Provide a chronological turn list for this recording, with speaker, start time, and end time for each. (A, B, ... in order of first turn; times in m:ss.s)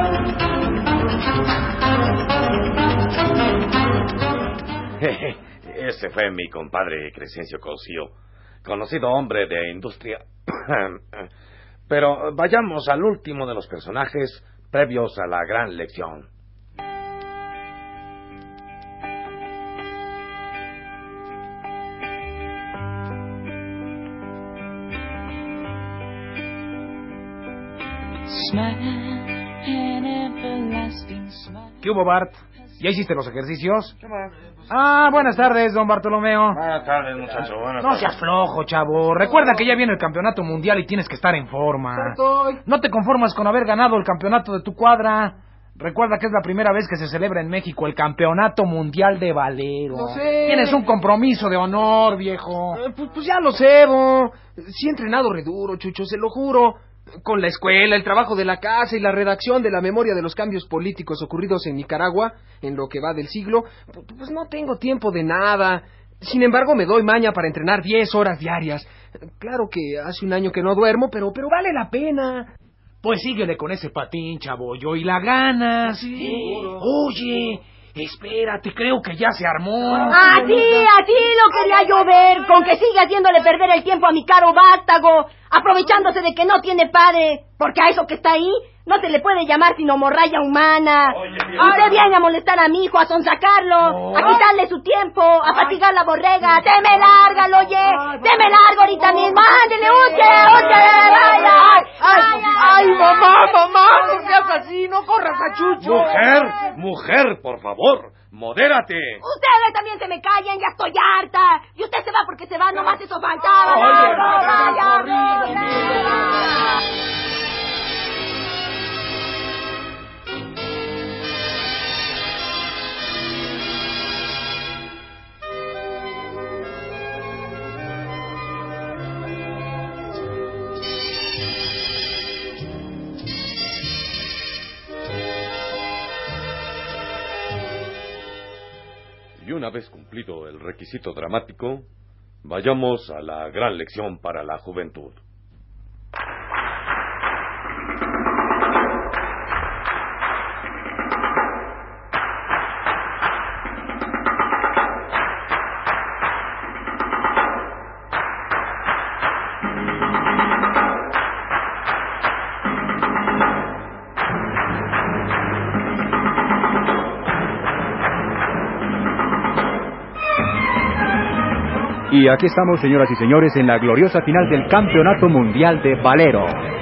0:05.0-0:11.2 A
0:11.9-0:16.3 A
0:31.8-0:34.0 B
0:34.7-0:36.6 B
0:36.5-0:38.1 A
0:37.8-0:52.8 B
0:41.9-0:42.6 C
0:49.9-0:50.8 C
0:52.7-1:12.5 C
1:13.0-1:16.0 B
1:15.9-1:16.6 C
1:16.7-1:20.8 B
1:20.1-1:44.4 D
1:31.3-1:31.7 A
1:40.4-1:41.4 B
1:41.3-1:46.2 C
1:45.8-1:49.2 A
1:49.2-1:56.7 D
1:53.7-1:55.7 B
2:19.4-2:21.9 A
2:22.4-2:25.2 A
2:52.1-2:56.6 E